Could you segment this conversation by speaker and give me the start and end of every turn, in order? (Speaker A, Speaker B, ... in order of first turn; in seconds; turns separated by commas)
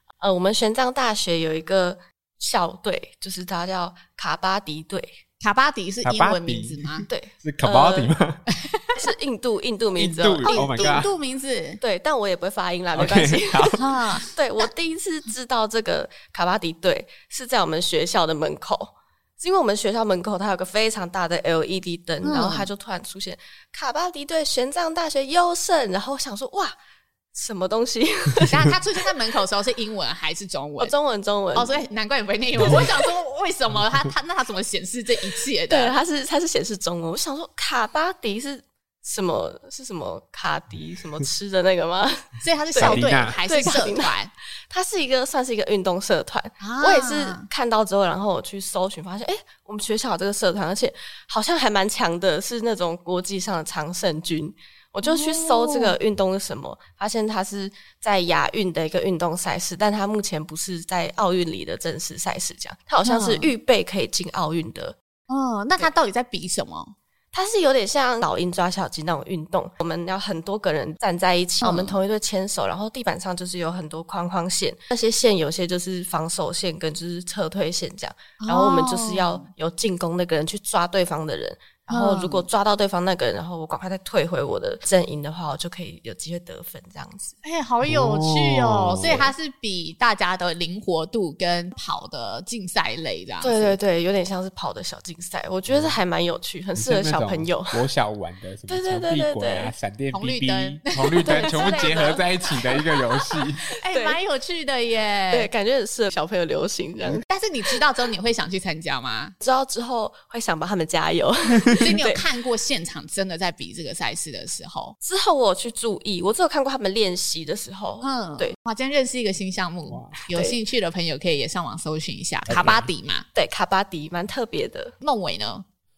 Speaker A: 0.2-5.1, Speaker B: 5.4-7.0, Speaker C: 6.0-8.4, Speaker A: 7.1-8.1, Speaker B: 8.5-9.0, Speaker A: 9.0-11.0, Speaker C: 9.9-11.1, Speaker B: 10.4-11.8, Speaker A: 11.8-26.7, Speaker C: 12.9-13.8, Speaker B: 13.8-14.3, Speaker B: 22.2-22.7, Speaker A: 27.3-28.8, Speaker B: 28.5-30.9, Speaker A: 30.8-31.8, Speaker B: 31.5-35.9, Speaker A: 35.7-44.2, Speaker B: 42.4-44.3, Speaker C: 42.8-43.4, Speaker A: 44.7-65.0, Speaker B: 46.6-47.4, Speaker B: 55.0-55.9, Speaker B: 63.0-63.5, Speaker B: 65.3-66.9, Speaker A: 67.3-87.4, Speaker B: 71.6-72.0, Speaker B: 78.4-79.5, Speaker B: 81.9-82.5, Speaker B: 87.4-93.8, Speaker C: 87.8-89.3, Speaker A: 93.4-97.8, Speaker C: 95.7-96.0, Speaker C: 96.8-103.6, Speaker A: 98.7-99.7, Speaker B: 100.1-102.8, Speaker A: 101.2-103.2, Speaker B: 103.7-105.5, Speaker A: 103.8-104.2, Speaker A: 105.3-107.8, Speaker B: 107.2-109.3, Speaker A: 109.4-112.2, Speaker B: 111.8-114.9, Speaker A: 115.0-118.5, Speaker B: 118.0-123.2, Speaker C: 119.9-120.2, Speaker A: 120.3-120.6, Speaker C: 122.5-122.9, Speaker A: 123.3-124.9, Speaker B: 125.0-125.6